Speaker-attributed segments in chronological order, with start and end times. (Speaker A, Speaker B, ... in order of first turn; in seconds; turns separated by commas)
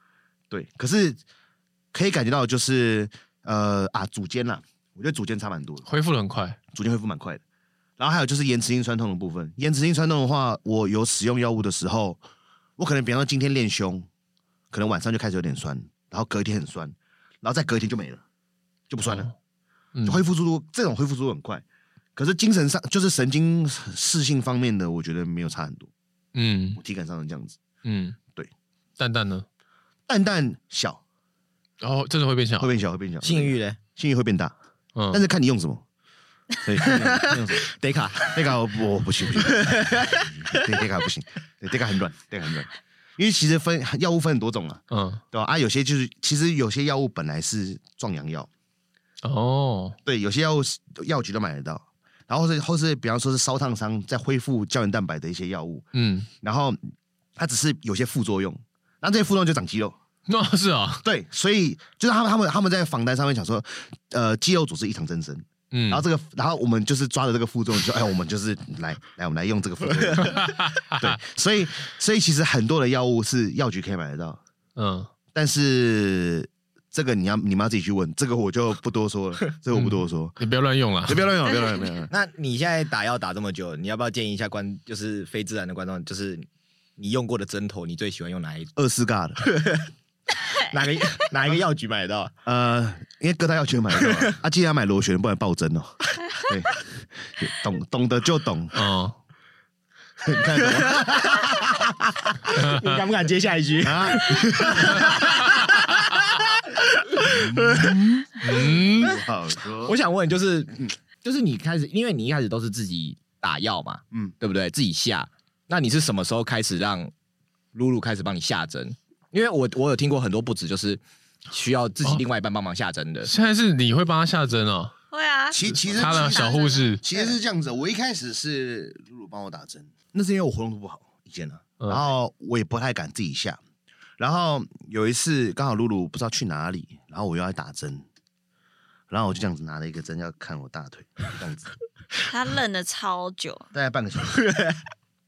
Speaker A: 0.5-1.2, Speaker A: 1.9-5.8, Speaker B: 5.9-6.6, Speaker A: 6.7-7.4, Speaker A: 8.0-12.2, Speaker A: 12.8-14.1, Speaker A: 14.7-18.2, Speaker A: 18.9-19.3, Speaker B: 19.0-19.3, Speaker B: 19.9-20.2, Speaker A: 20.1-21.6, Speaker A: 22.2-25.9, Speaker B: 26.3-26.8, Speaker A: 26.8-27.6, Speaker B: 27.8-28.2, Speaker B: 29.0-29.4, Speaker A: 30.1-31.0, Speaker B: 31.8-32.7, Speaker A: 32.6-34.5, Speaker C: 33.2-33.8, Speaker B: 35.0-35.2, Speaker A: 35.1-35.8, Speaker A: 36.6-37.7, Speaker C: 36.8-38.4, Speaker A: 38.2-48.5, Speaker C: 39.4-40.7, Speaker B: 44.9-45.2, Speaker B: 49.2-50.0, Speaker A: 50.1-55.9, Speaker B: 55.9-56.3, Speaker A: 56.4-56.8, Speaker A: 57.4-60.0, Speaker B: 60.3-61.0, Speaker A: 61.0-74.4, Speaker B: 65.7-66.0, Speaker C: 70.0-70.4, Speaker B: 70.2-71.2, Speaker B: 74.8-75.1, Speaker A: 75.3-80.4, Speaker B: 79.7-81.3, Speaker A: 81.0-82.1, Speaker D: 81.5-81.9, Speaker C: 82.1-88.7, Speaker A: 88.8-89.4, Speaker C: 89.4-89.9, Speaker C: 90.5-92.3, Speaker A: 92.4-98.8, Speaker C: 94.0-94.3, Speaker B: 98.7-99.2, Speaker A: 100.2-102.0, Speaker C: 100.6-109.1, Speaker B: 102.5-103.0, Speaker A: 103.8-105.2, Speaker B: 105.1-105.8, Speaker A: 107.2-110.0, Speaker B: 108.4-109.2, Speaker C: 109.8-117.1, Speaker C: 117.7-123.3, Speaker B: 123.2-124.9, Speaker D: 125.1-127.2, Speaker A: 125.5-133.6, Speaker B: 125.7-127.0, Speaker B: 131.8-132.1, Speaker A: 134.2-138.1, Speaker A: 139.1-141.7, Speaker D: 142.3-143.7, Speaker A: 143.7-144.4, Speaker C: 144.4-144.8